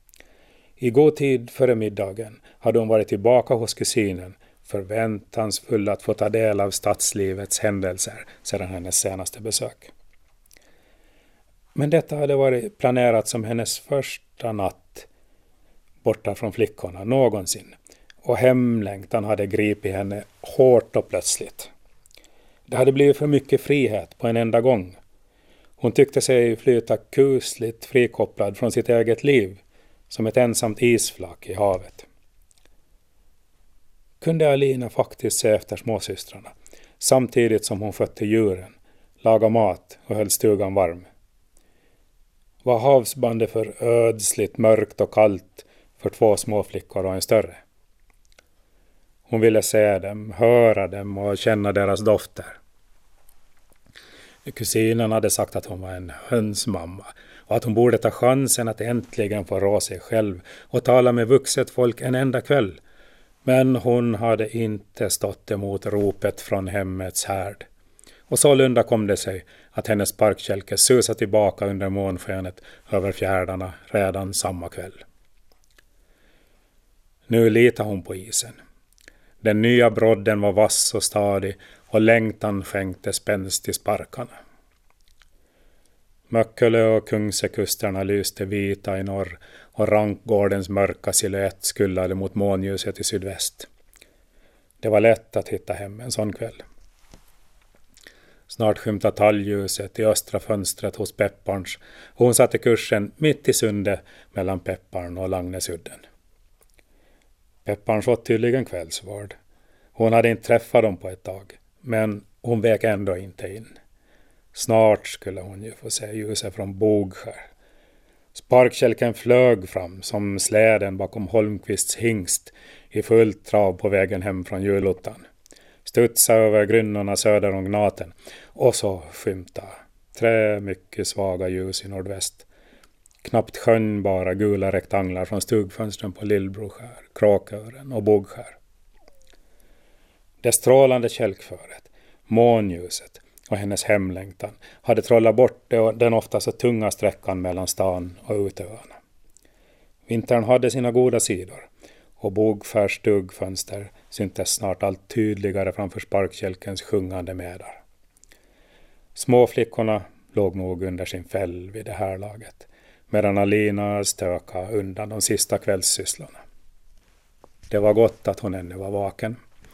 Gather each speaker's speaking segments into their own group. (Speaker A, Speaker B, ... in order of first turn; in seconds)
Speaker A: 0.8-9.9, 11.8-15.1, 16.0-21.7, 22.7-25.0, 25.8-32.1, 34.2-41.1, 42.6-47.6, 49.3-52.6, 54.5-62.8, 63.5-67.7, 68.3-75.0, 77.3-78.6, 79.4-84.3, 86.3-93.7, 94.8-96.6, 98.5-106.0, 107.7-109.3, 110.0-113.7, 114.5-117.5, 118.3-125.2, 125.8-132.5, 133.2-138.6, 140.4-149.0, 150.1-151.7, 152.2-157.8, 159.2-166.4, 167.7-169.4